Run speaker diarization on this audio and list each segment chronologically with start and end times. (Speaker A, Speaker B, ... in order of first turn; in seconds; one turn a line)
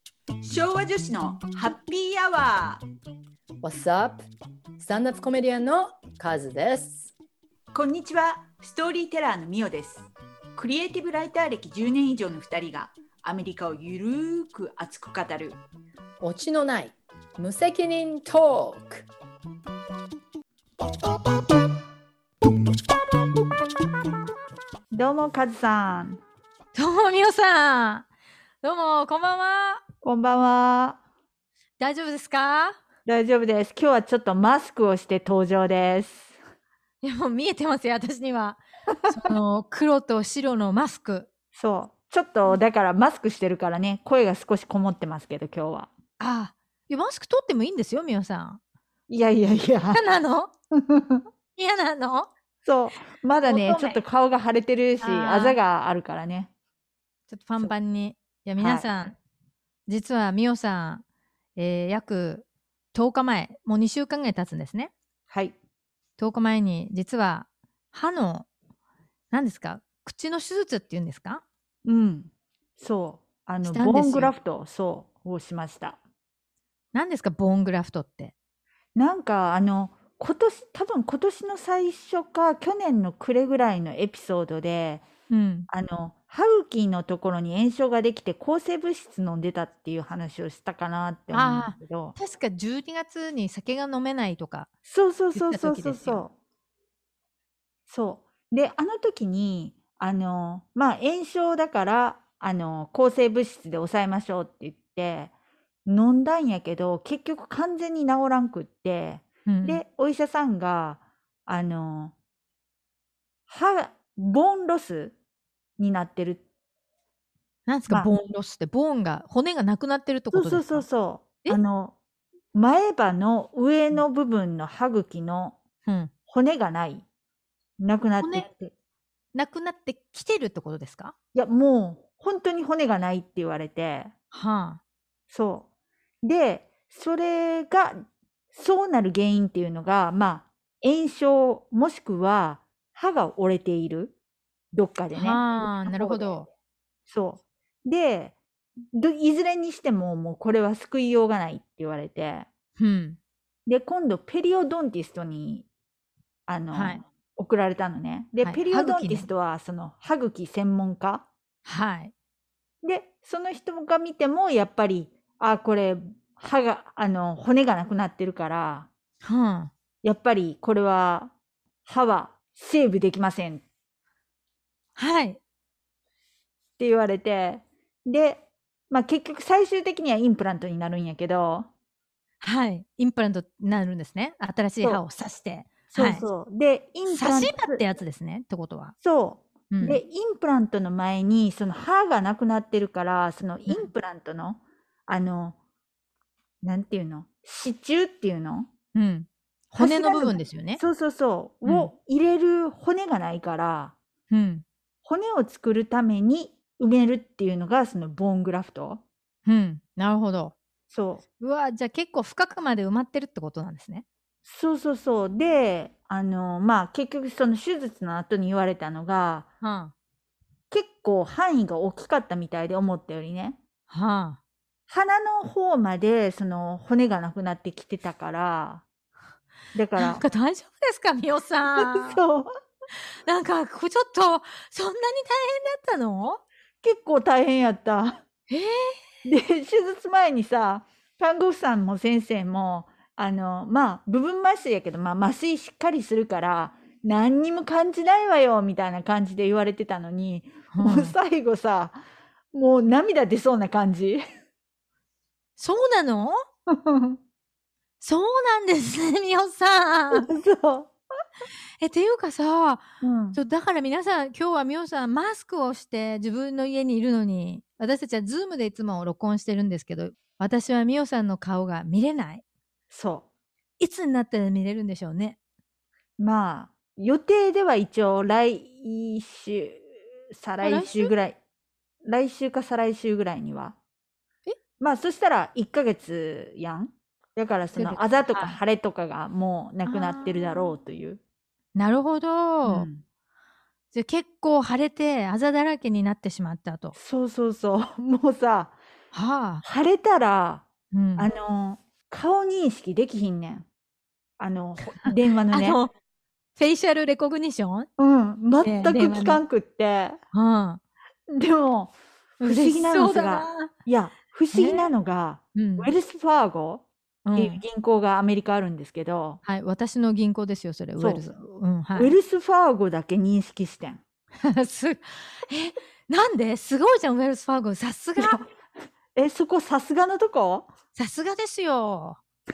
Speaker A: 0.4-2.8
Speaker B: 3.6-4.2
Speaker B: 4.8-7.1
Speaker A: 7.7-15.6
Speaker B: 16.2-19.1
Speaker A: 24.9-26.2
Speaker C: 26.7-28.1
Speaker C: 28.6-29.8
Speaker A: 30.0-31.0
Speaker C: 31.8-32.8
Speaker A: 33.0-36.4
Speaker C: 37.0-41.3
Speaker A: 41.5-45.9
Speaker C: 46.2-48.6
Speaker A: 49.1-50.0
Speaker C: 49.9-50.5
Speaker A: 50.8-51.2
Speaker C: 51.5-52.3
Speaker A: 52.6-56.5
Speaker C: 53.4-54.0
Speaker C: 55.0-55.6
Speaker C: 57.3-59.1
Speaker A: 58.6-58.9
Speaker C: 59.9-61.0
Speaker C: 61.5-64.9
Speaker A: 65.3-65.5
Speaker C: 66.2-68.5
Speaker C: 69.3-71.4
Speaker A: 71.8-76.0
Speaker C: 73.6-74.3
Speaker C: 76.9-78.3
Speaker A: 79.0-85.1
Speaker C: 85.3-85.7
Speaker A: 85.7-92.1
Speaker C: 91.3-94.7
Speaker A: 94.8-96.3
Speaker C: 95.3-96.2
Speaker A: 97.9-105.3
Speaker A: 105.8-112.1
Speaker C: 109.5-109.8
Speaker A: 113.5-115.2
Speaker A: 115.8-116.4
Speaker C: 117.7-120.8
Speaker A: 120.3-121.9
Speaker A: 122.5-125.6
Speaker C: 125.8-126.1
Speaker A: 126.3-127.0
Speaker A: 127.8-128.7
Speaker C: 128.2-128.5
Speaker C: 129.3-131.1
Speaker A: 131.3-134.1
Speaker C: 134.3-134.8
Speaker A: 135.3-135.7
Speaker A: 136.2-138.0
Speaker A: 138.5-144.1
Speaker A: 144.7-146.3
Speaker C: 145.1-146.5
Speaker A: 147.1-148.3
Speaker A: 148.9-152.5
Speaker C: 152.8-153.2
Speaker A: 153.7-155.7
Speaker A: 156.5-161.3
Speaker C: 156.7-157.0
Speaker C: 158.4-159.3
Speaker C: 161.6-162.1
Speaker A: 162.8-168.9
Speaker C: 169.2-169.7
Speaker A: 170.0-171.3
Speaker A: 171.8-173.6
Speaker C: 174.9-175.4
Speaker A: 176.8-181.7
Speaker C: 182.4-186.2
Speaker A: 185.9-187.8
Speaker C: 187.1-188.9
Speaker A: 189.0-195.6
Speaker C: 189.7-190.0
Speaker A: 196.6-198.7
Speaker C: 198.9-200.8
Speaker A: 199.8-203.9
Speaker C: 201.6-201.9
Speaker C: 204.3-204.6
Speaker A: 205.0-209.0
Speaker C: 209.4-210.5
Speaker A: 210.9-211.2
Speaker C: 211.4-214.0
Speaker A: 214.4-219.5
Speaker C: 219.6-219.9
Speaker A: 220.7-223.6
Speaker C: 223.9-224.4
Speaker A: 224.9-228.8
Speaker A: 229.7-230.2
Speaker C: 230.0-232.2
Speaker A: 231.8-232.5
Speaker C: 233.2-236.4
Speaker A: 236.8-238.2
Speaker C: 238.5-239.0
Speaker A: 239.2-252.0
Speaker C: 250.7-251.1
Speaker A: 252.5-254.2
Speaker C: 255.6-256.4
Speaker A: 256.7-257.2
Speaker C: 258.0-260.3
Speaker A: 260.1-260.9
Speaker C: 261.8-272.4
Speaker A: 263.0-263.4
Speaker A: 272.9-273.2
Speaker C: 273.8-275.4
Speaker A: 276.2-281.4
Speaker C: 280.6-281.1
Speaker A: 282.0-283.8
Speaker A: 284.8-291.2
Speaker C: 287.8-288.6
Speaker C: 289.8-290.7
Speaker C: 291.7-292.9
Speaker A: 292.6-293.0
Speaker C: 293.9-296.9
Speaker A: 296.9-298.8
Speaker C: 299.1-299.6
Speaker A: 299.6-303.7
Speaker C: 300.9-301.3
Speaker A: 304.4-305.8
Speaker C: 304.9-305.9
Speaker C: 306.6-307.9
Speaker A: 308.0-310.2
Speaker C: 308.6-309.4
Speaker C: 310.3-310.8
Speaker A: 311.3-316.8
Speaker C: 312.4-313.7
Speaker C: 314.5-314.9
Speaker C: 315.5-315.9
Speaker C: 317.2-317.6
Speaker A: 317.4-319.4
Speaker C: 319.4-322.1
Speaker A: 321.0-321.2
Speaker A: 321.9-324.0
Speaker C: 324.4-328.4
Speaker A: 328.2-328.5
Speaker A: 329.1-330.7
Speaker C: 330.9-332.2